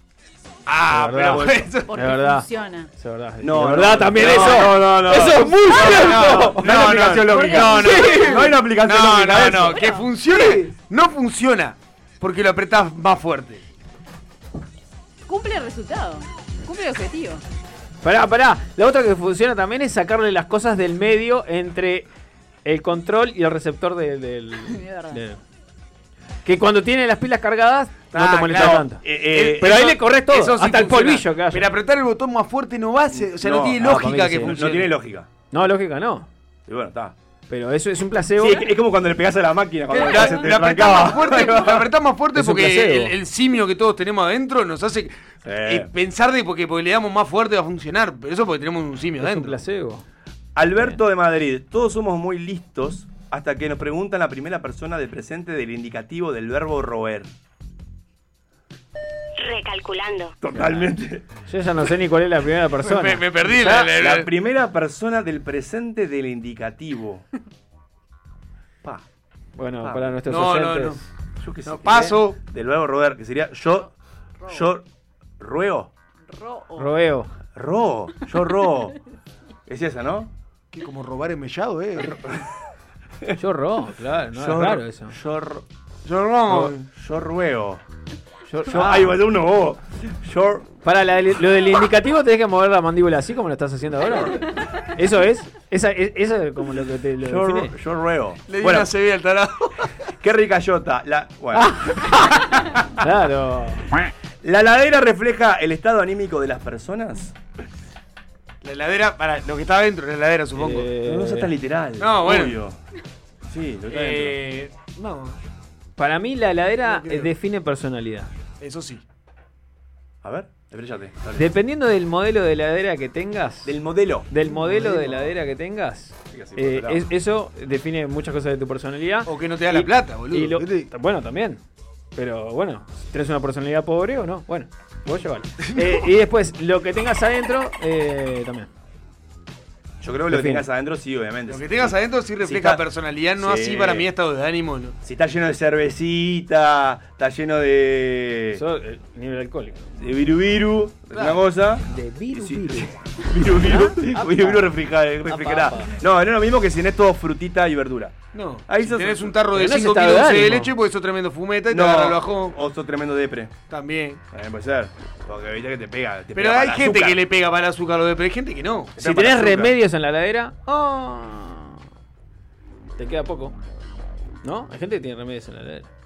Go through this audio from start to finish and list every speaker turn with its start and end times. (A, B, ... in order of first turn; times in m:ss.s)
0:00.7-0:01.9 A
0:00.9-0:06.7 B
0:01.3-0:01.7 C
0:01.9-0:02.9 D
0:03.4-0:09.9 C
0:04.2-0:04.6 A
0:05.6-0:13.6 A
0:07.3-0:08.3 D
0:07.6-0:08.4 B
0:09.7-0:10.1 D
0:10.3-0:10.6 B
0:15.3-0:17.4 D
0:18.0-0:22.1 B
0:22.6-0:25.4 B
0:24.7-0:25.2 D
0:26.4-0:29.0 B
0:28.1-0:34.9 A
0:28.5-0:30.0 C
0:29.6-0:31.7 B
0:33.1-0:35.3 C
0:33.8-0:34.6 B
0:35.5-0:36.3 B
0:36.7-0:37.2 C
0:37.5-0:38.7 B
0:38.4-0:41.9 C
0:39.9-0:49.6 A
0:42.4-0:43.2 B
0:45.4-0:45.9 C
0:49.2-0:50.0 B
0:50.6-0:57.3 C
1:00.4-1:01.3 C
1:00.5-1:00.9 B
1:01.5-1:03.7 B
1:02.8-1:04.3 A
1:03.5-1:07.3 C
1:09.6-1:11.1 B
1:09.8-1:10.2 C
1:10.3-1:11.0 A
1:11.4-1:13.9 C
1:11.6-1:12.4 A
1:14.4-1:14.7 D
1:14.5-1:14.9 C
1:15.4-1:15.9 C
1:16.3-1:16.9 D
1:16.8-1:17.3 B
1:17.6-1:19.0 C
1:19.7-1:20.3 C
1:20.7-1:22.2 A
1:23.4-1:25.2 B
1:24.3-1:25.6 C
1:26.0-1:26.9 A
1:26.6-1:27.8 C
1:28.5-1:29.2 B
1:28.7-1:30.7 C
1:30.8-1:37.7 B
1:37.2-1:38.9 C
1:38.5-1:39.9 A
1:40.2-1:42.1 C
1:41.5-1:43.9 B
1:44.4-1:47.4 C
1:48.6-1:50.9 A
1:50.6-1:51.5 B
1:51.0-1:52.8 C
1:52.0-1:52.6 A
1:53.5-1:54.4 C
1:53.9-1:55.4 A
1:56.0-1:58.3 B
1:56.8-1:57.3 A
1:58.6-1:59.0 A
2:00.2-2:01.5 C
2:01.4-2:03.8 B
2:03.6-2:04.3 C
2:04.3-2:11.6 B
2:04.4-2:05.3 A
2:06.3-2:07.1 C
2:09.3-2:10.9 A
2:12.2-2:18.7 B
2:15.8-2:16.0 A
2:20.0-2:22.8 C
2:20.3-2:20.7 B
2:21.5-2:25.0 A
2:23.4-2:24.1 C
2:25.0-2:28.6 C
2:28.6-2:29.8 B
2:30.0-2:39.4 C
2:31.1-2:31.4 A
2:31.9-2:32.9 B
2:33.4-2:34.7 B
2:35.3-2:36.0 B
2:38.3-2:42.6 A
2:39.5-2:40.7 B
2:41.7-2:43.6 C
2:43.7-2:44.2 A
2:44.3-2:47.2 C
2:46.3-2:49.7 A
2:49.0-2:51.8 B
2:53.0-2:53.6 B
2:54.4-2:55.9 B